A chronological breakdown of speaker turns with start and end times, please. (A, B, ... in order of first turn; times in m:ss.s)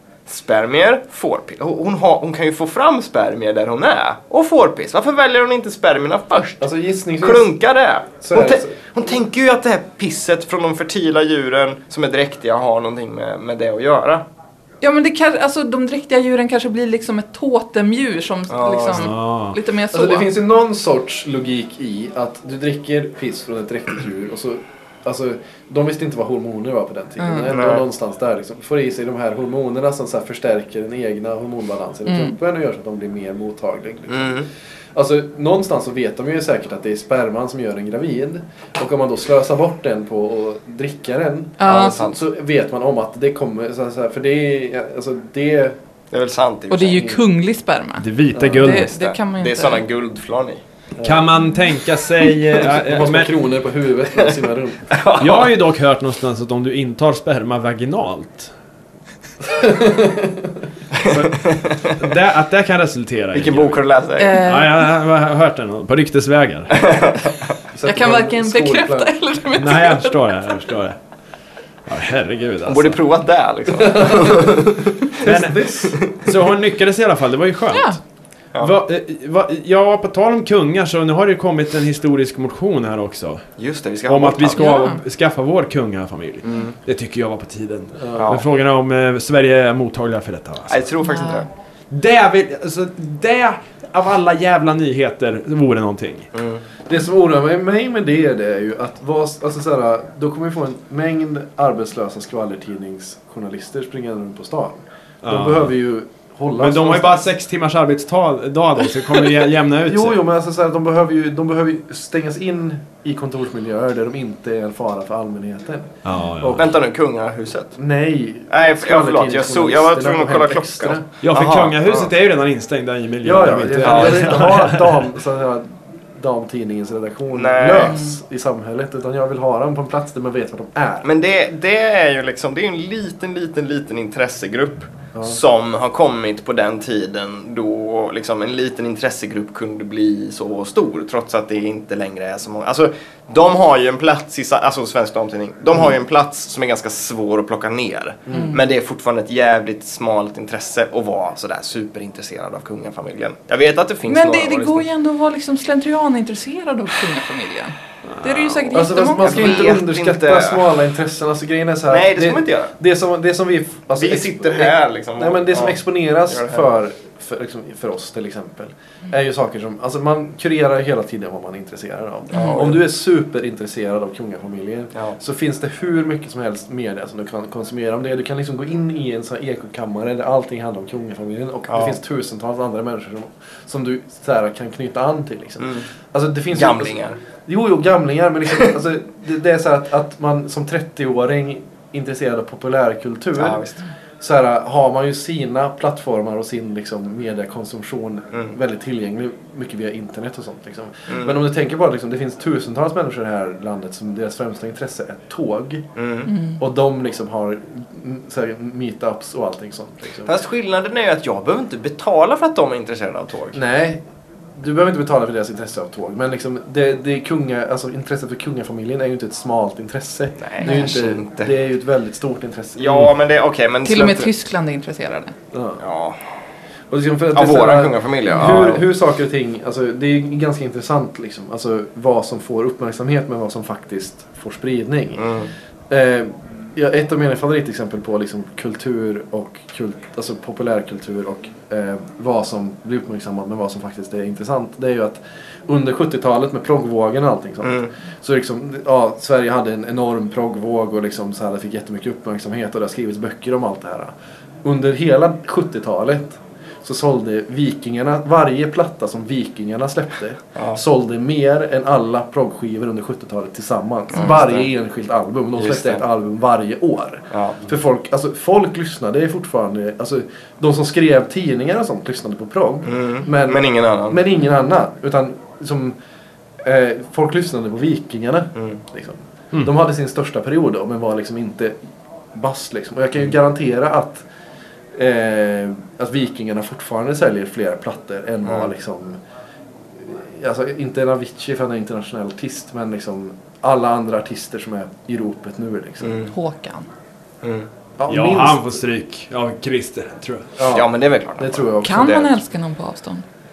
0:00.3-0:06.7 A
0:06.6-0:07.5 B
0:07.2-0:14.2 A
0:08.2-0:08.8 B
0:14.8-0:20.3 C
0:18.5-0:19.1 A
0:18.9-0:19.6 D
0:19.9-0:34.4 B
0:27.2-0:27.5 C
0:27.5-0:27.8 A
0:32.0-0:32.3 C
0:34.1-0:34.5 A
0:34.9-0:45.8 B
0:41.6-0:42.0 C
0:41.6-0:42.2 A
0:46.1-0:47.2 A
0:46.7-0:49.8 C
0:48.0-0:48.9 D
0:48.3-0:48.6 B
0:48.6-0:50.6 A
0:51.0-0:51.3 B
0:51.0-0:53.3 D
0:52.5-0:54.9 B
0:54.9-0:55.6 A
0:55.2-0:58.5 D
0:59.4-1:00.6 B
1:00.9-1:02.0 A
1:01.0-1:03.8 D
1:03.3-1:04.4 A
1:04.2-1:04.9 C
1:04.4-1:06.8 D
1:06.7-1:07.4 A
1:07.7-1:09.1 B
1:07.8-1:10.3 C
1:09.5-1:11.0 D
1:11.9-1:13.0 D
1:12.6-1:15.2 A
1:13.9-1:16.0 B
1:15.2-1:18.0 D
1:18.6-1:23.4 D
1:23.6-1:24.6 A
1:24.0-1:30.8 D
1:24.6-1:25.0 C
1:26.4-1:26.7 A
1:28.0-1:28.3 B
1:28.2-1:28.4 A
1:30.7-1:31.5 A
1:31.0-1:31.4 C
1:31.9-1:36.3 D
1:36.3-1:36.6 A
1:36.8-1:47.2 B
1:45.2-1:45.7 D
1:46.6-1:50.2 D
1:49.8-1:56.7 B
1:56.0-1:56.6 D
1:56.6-1:57.7 A
1:57.7-2:01.0 B
1:58.5-2:02.1 A
2:01.2-2:05.0 D
2:03.2-2:11.1 B
2:03.8-2:04.5 A
2:07.3-2:08.0 A
2:11.0-2:34.8 A
2:28.3-2:28.6 B
2:28.3-2:28.6 C
2:34.1-2:39.7 C
2:38.1-2:38.6 D
2:38.7-3:13.6 B
2:39.2-2:40.7 A
2:41.9-2:42.7 A
2:44.0-2:46.6 A
2:52.3-2:52.8 A
2:52.3-2:52.6 C
3:01.7-3:02.0 A
3:05.6-3:05.8 A
3:06.5-3:07.2 A
3:13.4-3:13.8 A
3:14.2-3:25.9 B
3:21.1-3:21.4 A
3:26.0-3:26.3 A
3:26.2-3:26.6 C
3:26.6-3:30.3 B
3:30.2-3:33.6 A
3:33.5-3:34.0 B
3:34.5-3:43.1 B
3:40.4-3:41.5 A
3:40.6-3:40.9 C
3:42.8-3:44.3 A
3:43.8-3:45.3 C
3:45.5-3:45.8 B
3:45.8-3:46.2 A
3:46.9-3:55.3 B
3:47.3-3:48.8 A
3:48.3-3:48.6 C
3:55.2-3:55.5 A
3:55.9-4:14.1 B
4:07.6-4:07.9 A
4:14.6-4:36.0 B
4:24.1-4:24.7 A
4:25.6-4:26.0 A
4:27.3-4:27.6 A
4:32.8-4:34.2 A
4:36.6-4:41.8 B
4:42.3-4:44.2 B
4:44.9-4:49.2 B
4:50.0-4:56.2 B
4:56.0-4:56.3 A
4:56.2-4:56.9 C
4:57.4-4:57.7 A
4:58.0-4:58.7 B
4:58.1-5:00.5 D
5:00.6-5:02.3 B
5:00.7-5:02.3 A
5:01.8-5:03.2 C